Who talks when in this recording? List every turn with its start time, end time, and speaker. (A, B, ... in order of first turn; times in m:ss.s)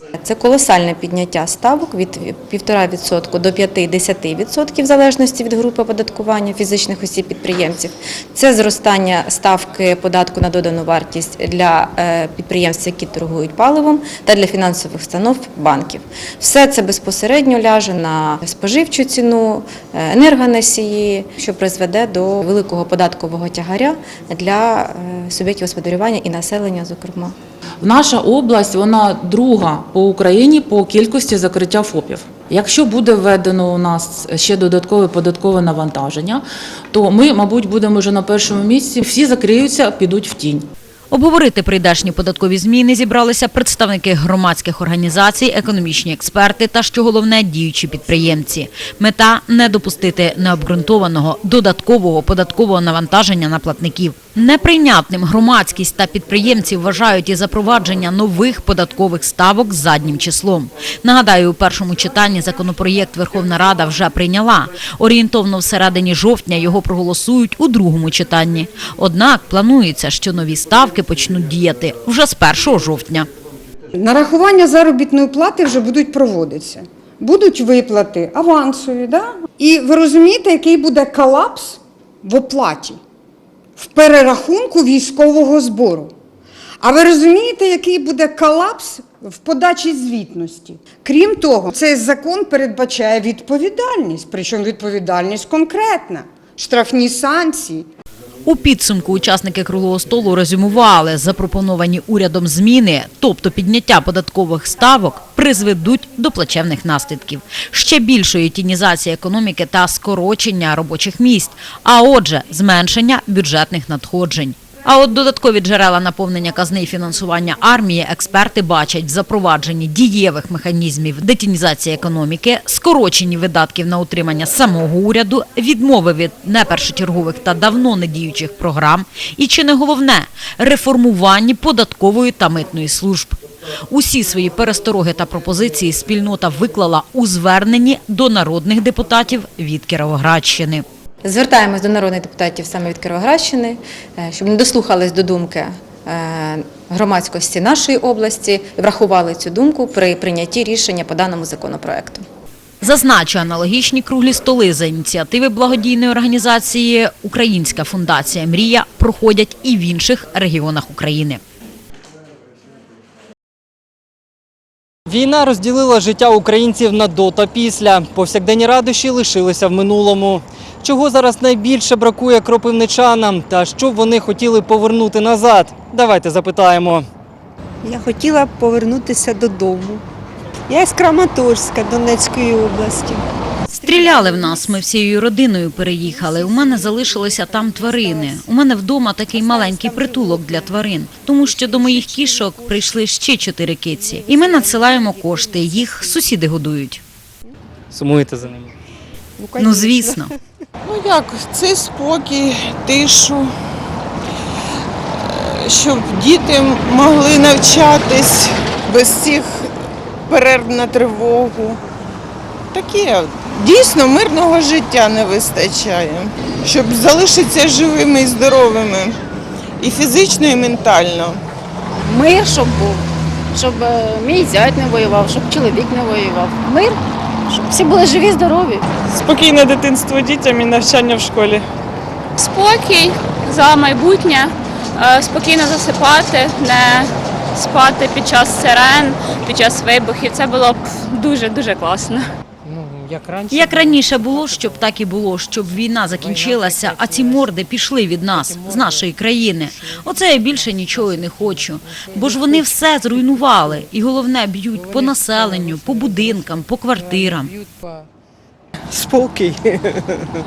0:00.2-0:27.3 A
0:27.8-0:40.7 B
0:41.1-1:13.3 C
1:14.0-1:23.0 D
1:23.8-1:26.1 D
1:26.8-1:37.9 D
1:38.4-2:20.8 C
2:21.2-2:32.2 A
2:32.8-2:41.4 C
2:45.1-2:57.1 E
2:57.8-3:00.0 F
3:00.7-3:03.2 F
3:03.7-3:17.0 C
3:17.9-3:18.7 E
3:19.4-3:20.2 F
3:19.5-3:20.3 C
3:23.1-3:23.3 G
3:27.0-3:27.3 G
3:30.6-3:31.7 G
3:42.1-3:43.0 H
3:43.6-3:46.6 H
3:47.7-3:48.8 H
3:49.2-3:51.6 I
3:52.4-4:02.3 J
4:03.1-4:03.7 K
4:03.5-4:17.5 C
4:06.3-4:07.3 K
4:08.4-4:08.8 K
4:14.9-4:16.3 K
4:17.2-4:17.8 K
4:18.9-4:19.9 G